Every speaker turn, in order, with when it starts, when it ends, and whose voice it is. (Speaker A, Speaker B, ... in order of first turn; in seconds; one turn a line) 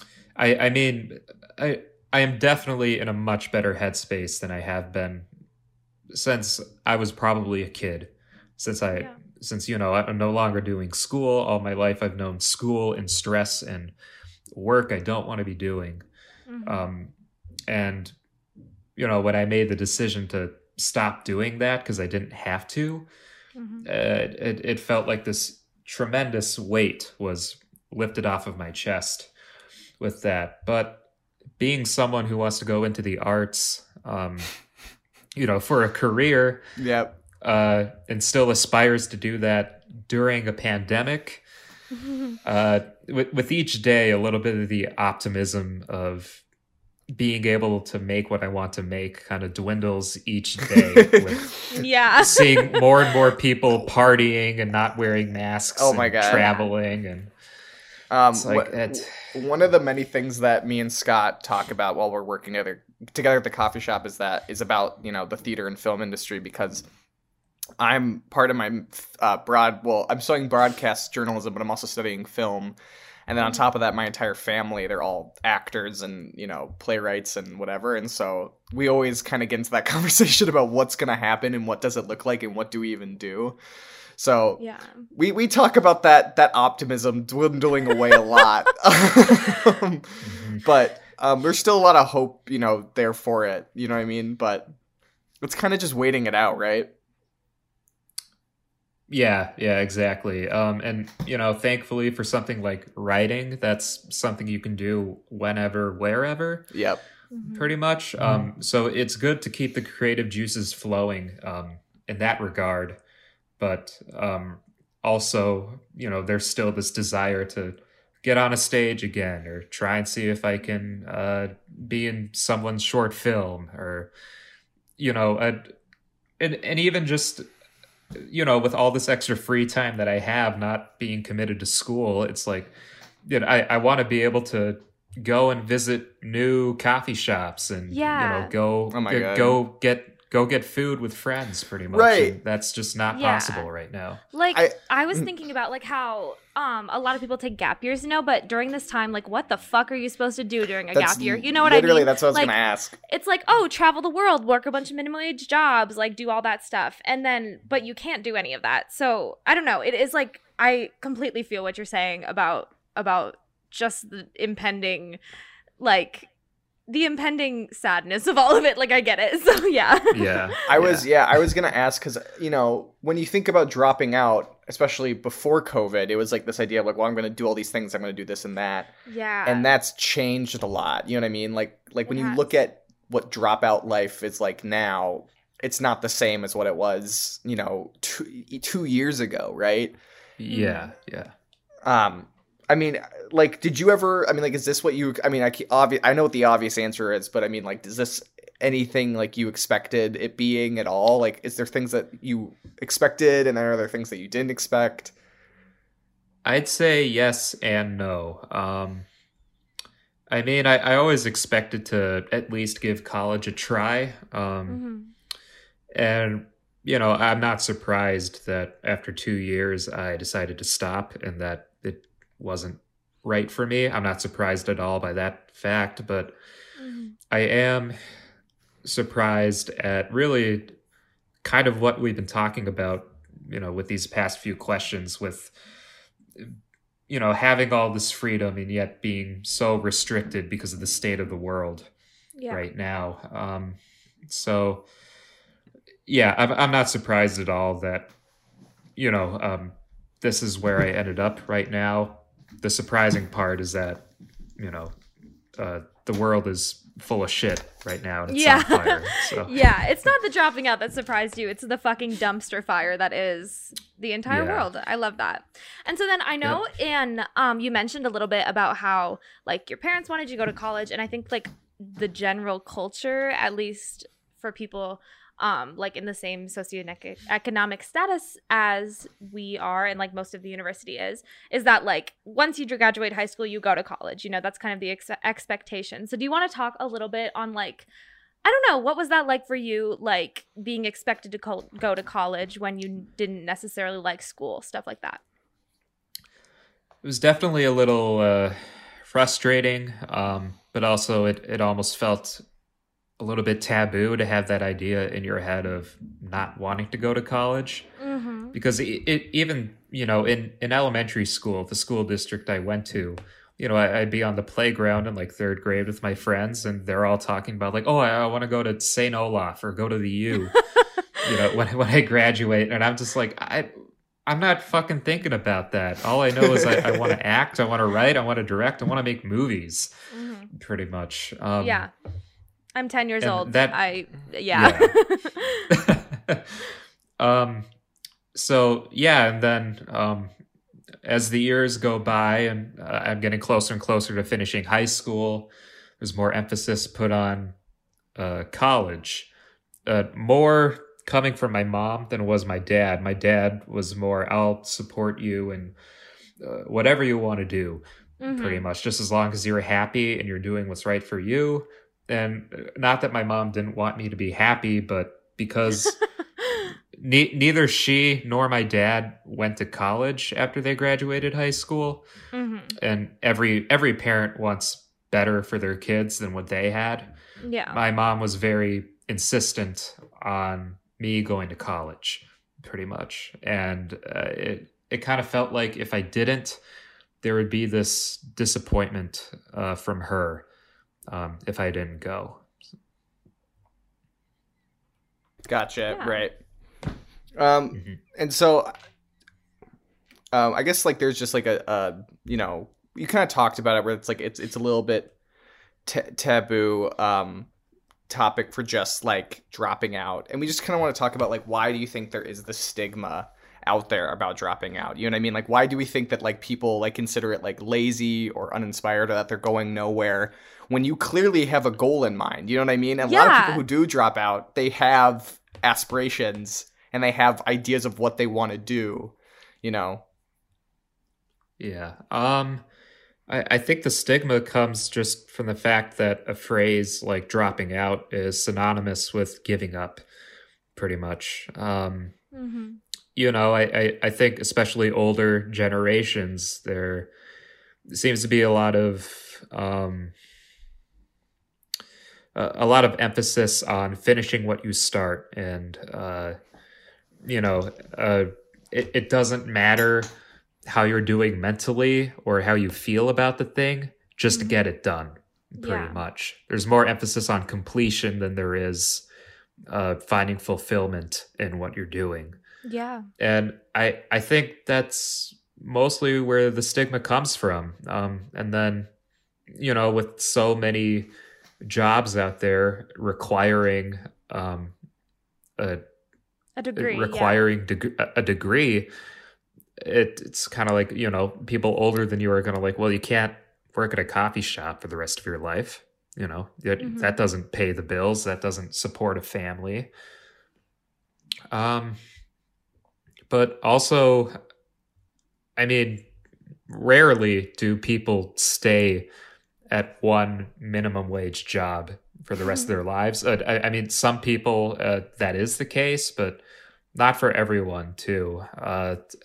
Speaker A: 0.3-5.2
Speaker A: 6.1-13.9
Speaker A: 14.5-16.0
Speaker B: 16.5-16.8
Speaker A: 16.6-17.1
Speaker A: 17.7-18.1
Speaker A: 18.9-23.1
Speaker B: 23.6-23.9
Speaker A: 23.8-29.3
Speaker A: 30.0-31.0
Speaker A: 31.6-34.5
Speaker A: 35.3-36.6
Speaker C: 36.8-37.1
Speaker A: 37.4-41.4
Speaker B: 42.0-42.3
Speaker A: 42.4-46.4
Speaker A: 47.1-57.3
Speaker C: 50.8-51.4
Speaker B: 51.7-52.7
Speaker C: 55.8-56.5
Speaker B: 56.3-56.6
Speaker C: 58.1-66.8
Speaker A: 58.3-59.2
Speaker C: 67.8-72.8
Speaker C: 73.3-83.6
Speaker C: 84.2-84.6
Speaker B: 84.6-85.0
Speaker C: 85.1-94.7
Speaker A: 90.2-90.6
Speaker C: 95.4-96.9
Speaker A: 99.1-106.7
Speaker C: 106.7-107.0
Speaker B: 107.3-107.7
Speaker A: 107.5-113.0
Speaker A: 113.6-124.1
Speaker A: 125.0-125.7
Speaker A: 126.4-127.4
Speaker A: 128.1-132.7
Speaker A: 133.2-144.2
Speaker B: 137.9-138.5
Speaker C: 138.9-139.6
Speaker C: 141.9-142.4
Speaker B: 143.1-143.7
Speaker B: 144.3-152.5
Speaker C: 144.5-145.3
Speaker C: 150.9-152.9
Speaker B: 153.1-165.2
Speaker B: 165.8-166.3
Speaker B: 166.9-170.5
Speaker A: 170.1-171.1
Speaker C: 170.7-178.9
Speaker B: 179.1-179.7
Speaker C: 179.4-189.9
Speaker B: 182.1-182.4
Speaker A: 190.4-191.3
Speaker B: 190.5-190.9
Speaker C: 191.8-205.1
Speaker A: 206.4-209.1
Speaker A: 210.3-214.8
Speaker B: 214.7-215.1
Speaker A: 215.9-226.3
Speaker B: 226.8-227.1
Speaker A: 227.3-228.0
Speaker A: 228.8-230.7
Speaker A: 231.4-235.5
Speaker A: 237.1-241.9
Speaker A: 242.5-243.8
Speaker A: 244.3-244.8
Speaker A: 246.1-248.1
Speaker A: 249.0-254.0
Speaker A: 254.6-254.9
Speaker A: 255.6-259.5
Speaker B: 258.3-287.9
Speaker A: 264.3-264.7
Speaker B: 288.4-295.2
Speaker A: 297.0-302.4
Speaker A: 303.2-307.9
Speaker B: 308.0-308.6
Speaker A: 308.5-320.6
Speaker B: 320.6-321.2
Speaker A: 321.2-323.7
Speaker A: 324.2-329.9
Speaker C: 326.4-327.1
Speaker B: 330.1-330.5
Speaker A: 330.5-331.9
Speaker B: 331.6-331.9
Speaker B: 332.8-335.7
Speaker A: 333.2-333.8
Speaker A: 334.5-334.9
Speaker A: 335.7-336.7
Speaker A: 337.2-337.6
Speaker A: 338.4-340.3
Speaker A: 341.0-347.5
Speaker A: 348.1-349.3
Speaker A: 349.9-355.7
Speaker A: 356.4-366.0
Speaker B: 358.2-358.6
Speaker A: 366.9-372.0
Speaker B: 372.3-372.7
Speaker A: 372.8-377.1
Speaker B: 377.4-377.8
Speaker A: 377.7-386.6
Speaker A: 387.2-390.4
Speaker A: 391.1-392.4
Speaker C: 395.5-396.4
Speaker B: 395.9-396.2
Speaker C: 397.4-398.7
Speaker A: 397.7-398.0
Speaker C: 400.3-405.1
Speaker C: 405.9-407.5
Speaker C: 408.1-430.0
Speaker B: 423.0-423.6
Speaker A: 431.6-432.6
Speaker A: 433.3-440.0
Speaker A: 440.8-442.1
Speaker B: 442.3-442.8
Speaker A: 443.1-447.1
Speaker A: 447.9-450.1
Speaker A: 452.4-456.4
Speaker A: 457.2-460.1
Speaker A: 460.6-469.0
Speaker B: 464.3-464.6
Speaker B: 465.6-466.0
Speaker A: 469.7-472.4
Speaker B: 472.6-473.1
Speaker A: 473.2-478.9
Speaker A: 479.5-481.1
Speaker A: 481.6-484.7
Speaker B: 486.6-487.4
Speaker A: 486.8-488.9
Speaker A: 489.8-499.9
Speaker B: 496.8-497.1
Speaker A: 501.5-502.0
Speaker A: 503.3-504.4
Speaker A: 505.6-506.1
Speaker A: 506.7-509.1
Speaker A: 509.7-516.4
Speaker B: 512.4-512.7
Speaker A: 516.9-519.0